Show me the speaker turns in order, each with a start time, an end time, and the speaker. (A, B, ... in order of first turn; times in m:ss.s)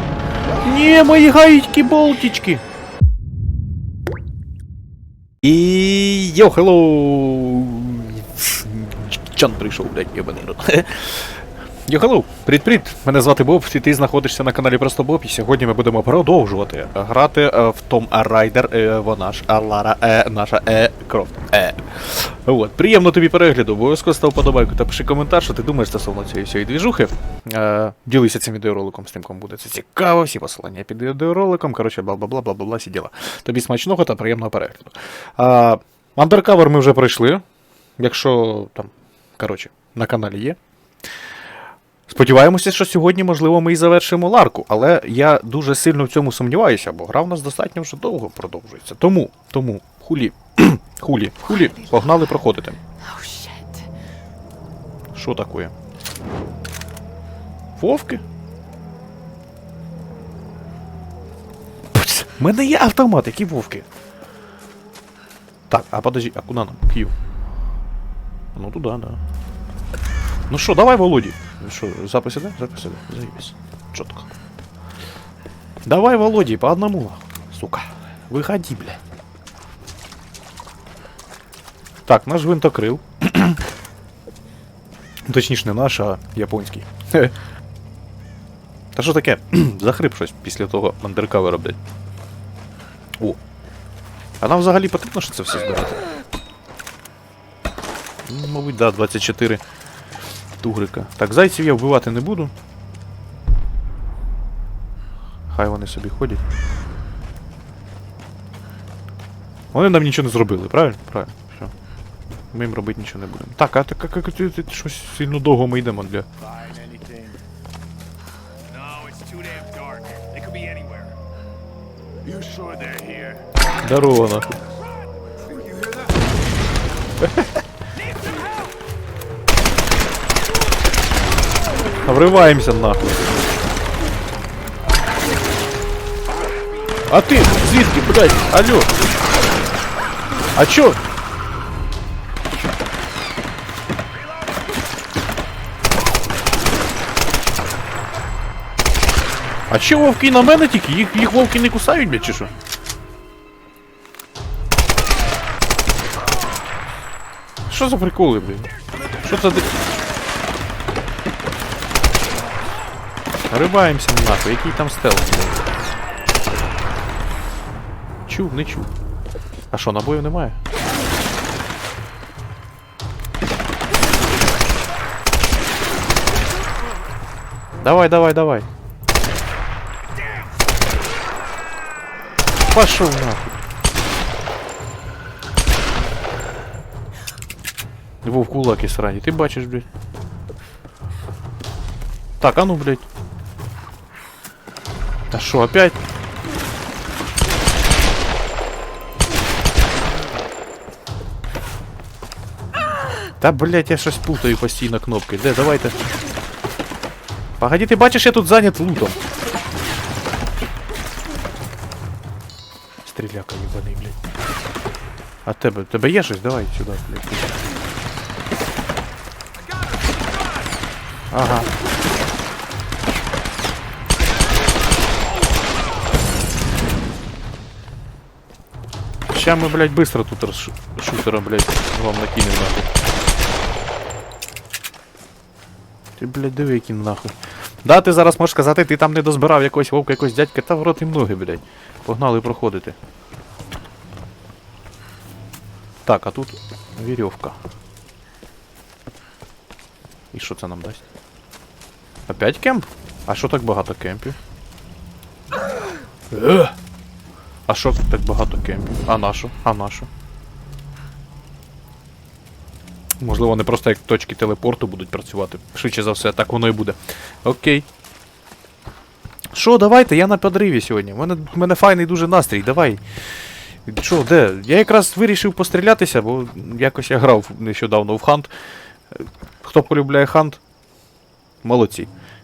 0:00.6-0:02.6 A
0:05.4-0:37.4 A
0:38.0-0:40.6 A
0:42.1-0:52.8 A
0:51.5-0:52.5 B
0:53.0-0:53.9 B
0:55.1-0:55.7 A
0:57.8-0:58.2 A
1:01.9-1:03.8 A
1:05.7-1:07.1 A
1:08.5-1:09.2 A
1:10.5-1:14.3 A
1:15.8-1:19.0 A
1:22.1-1:23.6 A
1:25.3-1:27.3 A
1:28.9-1:31.8 A
1:34.4-1:36.0 A
1:38.2-1:39.6 A
1:40.6-1:42.5 A
1:45.5-1:46.4 A
1:49.7-1:51.7 A
1:52.5-1:56.3 A
1:56.4-1:57.4 C
1:58.7-2:01.1 C
2:02.2-2:03.5 C
2:03.8-2:04.6 A
2:05.3-2:06.3 C
2:07.2-2:07.6 A
2:07.9-2:08.7 C
2:12.0-2:13.2 A
2:17.1-2:18.9 A
2:20.6-2:21.0 A
2:29.7-2:32.5 A
2:37.7-2:38.7 A
2:39.2-2:39.7 A
2:43.5-2:45.7 A
2:48.3-2:48.9 A
2:49.7-2:50.6 A
2:57.8-2:58.7 A
3:02.7-3:03.6 A
3:08.2-3:09.8 A
3:12.4-3:13.0 A
3:15.3-3:16.0 A
3:23.4-3:26.0 A
3:27.6-3:29.2 A
3:33.0-3:34.2 A
3:35.4-3:37.6 A
3:39.6-3:40.7 C
3:41.3-3:41.7 A
3:49.3-3:52.9 A
3:56.2-4:03.0 A
4:06.0-4:07.6 A
4:10.3-4:11.0 A
4:12.3-4:14.4 A
4:16.3-4:16.7 A
4:17.7-4:20.1 A
4:23.2-4:27.8 A
4:29.5-4:33.0 A
4:33.8-4:38.5 A
4:39.1-4:40.6 A
4:41.6-4:42.1 A